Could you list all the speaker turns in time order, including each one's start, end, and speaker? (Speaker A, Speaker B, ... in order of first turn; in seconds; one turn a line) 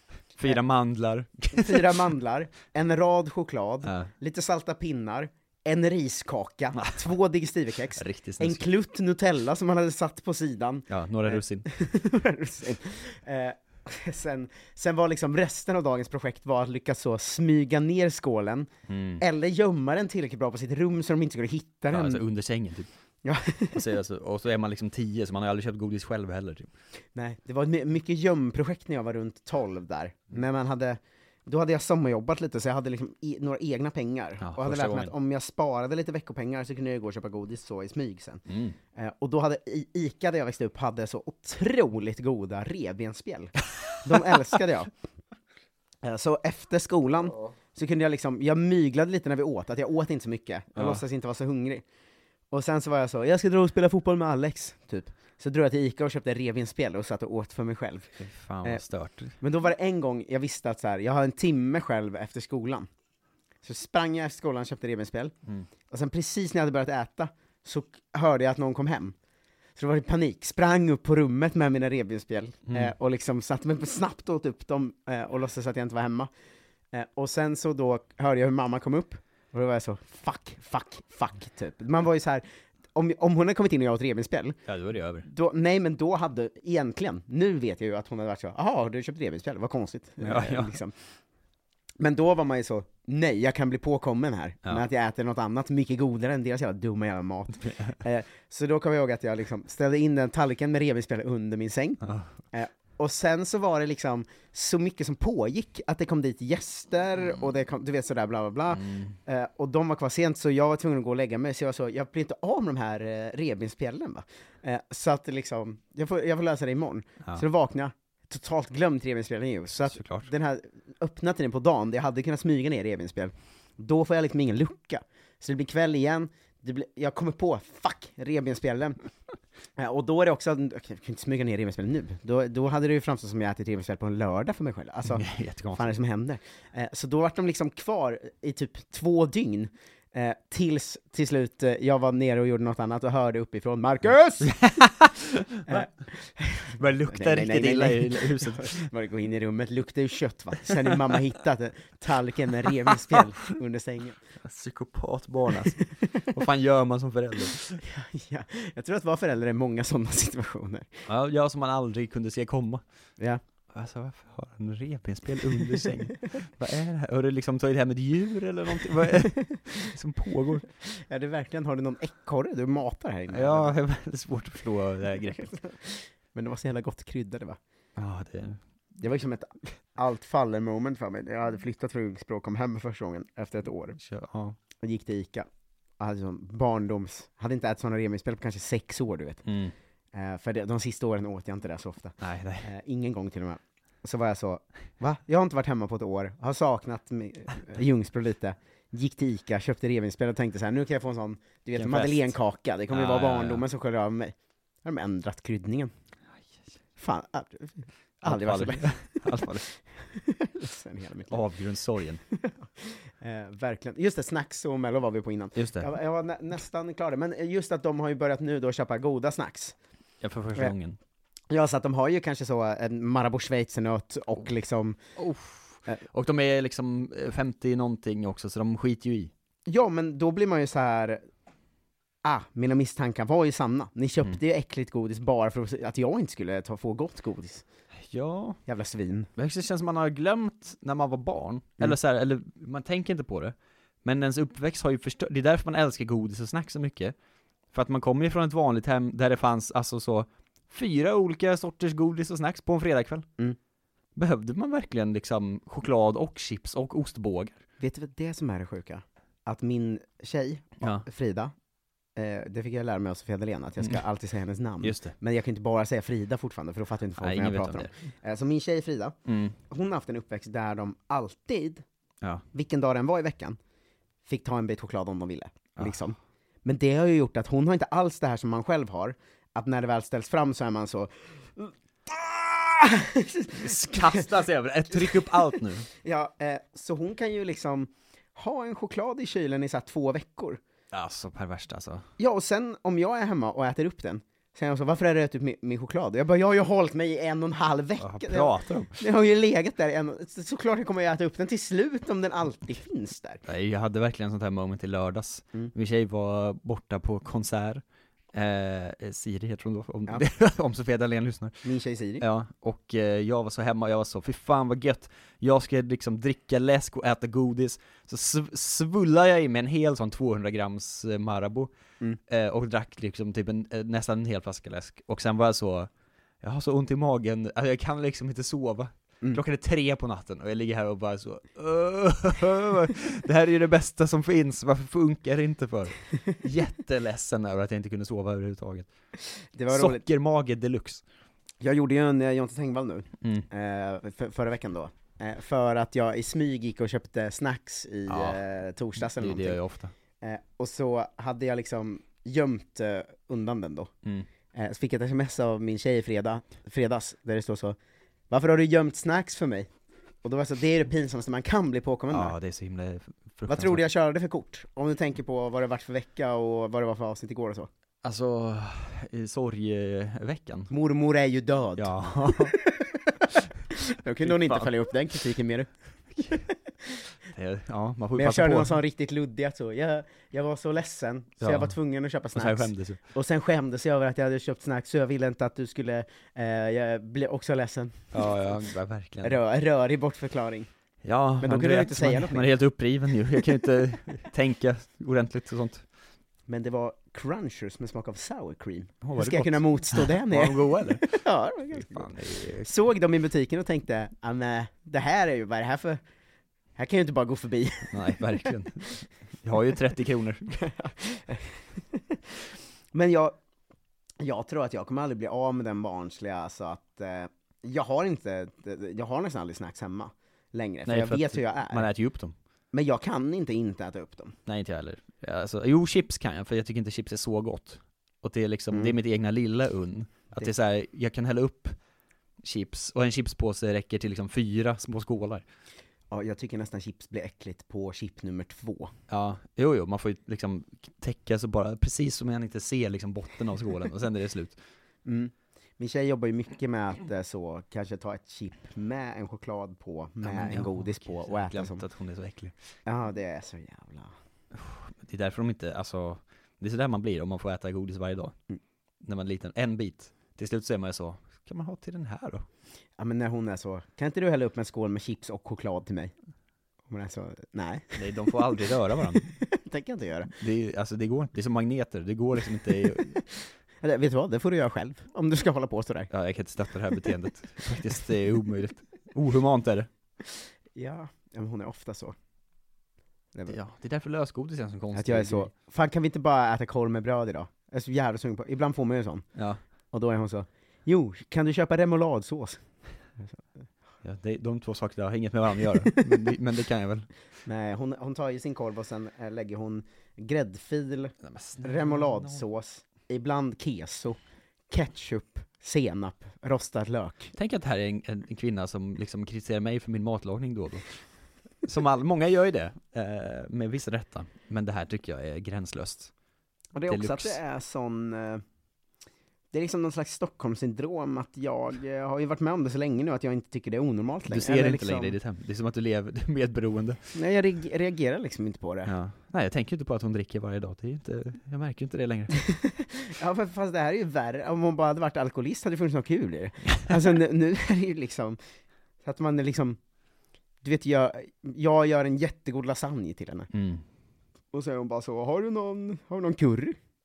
Speaker A: 0.4-2.0
Speaker B: 1.5-22.2
Speaker A: 3.8-4.1
Speaker A: 6.8-7.0
Speaker A: 8.0-8.7
Speaker A: 10.9-11.7
Speaker A: 18.9-19.2
Speaker A: 21.9-22.9
Speaker B: 23.2-23.8
Speaker A: 23.7-26.7
Speaker B: 27.1-38.4
Speaker A: 34.4-35.1
Speaker A: 38.5-38.8
Speaker B: 39.0-44.9
Speaker A: 44.1-44.4
Speaker B: 46.0-51.8
Speaker A: 50.8-51.0
Speaker B: 52.5-58.1
Speaker A: 58.2-59.4
Speaker B: 59.4-62.9
Speaker B: 63.6-65.3
Speaker B: 65.9-69.1
Speaker B: 69.8-76.3
Speaker A: 72.7-72.9
Speaker B: 76.9-84.6
Speaker A: 84.7-85.3
Speaker B: 85.2-90.9
Speaker A: 90.2-90.8
Speaker B: 92.0-102.0
Speaker A: 97.6-98.0
Speaker A: 102.0-102.3
Speaker B: 102.5-129.0
Speaker A: 108.7-109.2
Speaker A: 119.8-120.3
Speaker B: 129.8-144.9
Speaker A: 135.1-135.9
Speaker A: 144.4-145.9
Speaker B: 145.7-154.2
Speaker A: 146.8-148.8
Speaker A: 154.4-157.8
Speaker B: 157.8-160.9
Speaker A: 161.1-162.8
Speaker A: 163.7-170.7
Speaker B: 170.8-173.8
Speaker A: 173.3-175.5
Speaker B: 175.4-177.6
Speaker A: 178.0-178.6
Speaker B: 179.0-184.0
Speaker A: 184.0-184.6
Speaker B: 184.8-185.5
Speaker B: 186.0-189.5
Speaker A: 189.5-189.7
Speaker B: 190.1-205.9
Speaker A: 192.2-192.7
Speaker A: 201.8-202.4
Speaker A: 202.9-203.7
Speaker B: 207.0-209.4
Speaker A: 208.2-209.7
Speaker B: 210.1-211.4
Speaker A: 211.3-212.2
Speaker B: 212.4-219.8
Speaker A: 215.6-215.9
Speaker A: 220.2-221.0
Speaker B: 221.5-225.0
Speaker A: 225.2-229.3
Speaker B: 229.7-231.2
Speaker B: 232.2-237.6
Speaker A: 238.1-238.6
Speaker B: 238.7-239.3
Speaker A: 239.4-247.2
Speaker A: 247.7-253.3
Speaker A: 254.2-257.6
Speaker B: 257.8-261.5
Speaker A: 260.8-261.1
Speaker B: 262.2-269.2
Speaker A: 264.8-265.1
Speaker A: 267.2-268.0
Speaker A: 269.3-269.6
Speaker B: 269.7-271.8
Speaker B: 272.5-273.6
Speaker B: 274.2-284.2
Speaker A: 283.6-285.9
Speaker B: 284.9-290.6
Speaker A: 290.9-292.1
Speaker B: 292.2-303.4
Speaker A: 298.0-299.0
Speaker A: 303.5-311.6
Speaker B: 311.6-312.2
Speaker A: 312.2-321.7
Speaker A: 322.3-325.9
Speaker A: 326.4-338.9
Speaker B: 339.5-340.0
Speaker A: 339.7-341.0
Speaker B: 341.6-349.6
Speaker A: 343.2-343.5
Speaker A: 348.1-348.4
Speaker A: 349.0-349.9
Speaker B: 350.2-353.9
Speaker B: 354.5-357.8
Speaker B: 358.3-359.7
Speaker B: 360.2-362.3
Speaker A: 362.1-363.9
Speaker B: 363.5-367.7
Speaker A: 368.0-370.7
Speaker B: 370.7-373.1
Speaker A: 371.8-372.6
Speaker B: 373.7-375.7
Speaker A: 374.2-374.7
Speaker A: 377.3-378.8
Speaker B: 378.2-388.4
Speaker A: 381.4-381.8
Speaker A: 382.3-383.0
Speaker A: 388.1-389.4
Speaker B: 389.2-390.7
Speaker A: 391.0-395.9
Speaker B: 391.4-392.5
Speaker B: 396.5-406.0
Speaker A: 399.0-402.7
Speaker B: 406.8-408.5
Speaker A: 407.9-410.6
Speaker B: 410.6-412.2
Speaker B: 412.9-413.4
Speaker B: 414.2-421.9
Speaker A: 420.9-422.4
Speaker B: 422.7-424.4
Speaker A: 424.5-431.8
Speaker A: 432.4-435.4
Speaker B: 436.1-438.9
Speaker A: 439.1-444.6
Speaker B: 445.1-451.8
Speaker A: 450.2-452.6
Speaker B: 452.9-454.1
Speaker A: 454.5-458.4
Speaker A: 459.0-462.5
Speaker B: 463.0-466.1
Speaker B: 466.9-468.4
Speaker A: 468.0-469.3
Speaker B: 469.2-470.3
Speaker A: 470.3-473.2
Speaker B: 473.8-476.1
Speaker A: 476.1-479.9
Speaker B: 480.8-482.1
Speaker A: 483.5-485.5
Speaker B: 484.9-489.3
Speaker A: 489.4-489.6
Speaker B: 489.9-492.6
Speaker A: 494.0-497.1
Speaker B: 497.5-504.2
Speaker A: 501.2-502.4
Speaker B: 504.7-507.3
Speaker A: 507.3-511.0
Speaker A: 511.6-516.1
Speaker B: 516.7-518.4
Speaker A: 516.9-517.4
Speaker B: 519.5-525.2
Speaker A: 524.3-527.0
Speaker B: 527.1-528.9
Speaker A: 528.9-532.3
Speaker B: 532.6-538.4
Speaker B: 539.0-539.8
Speaker B: 540.6-543.5
Speaker A: 543.5-543.8
Speaker B: 544.5-546.8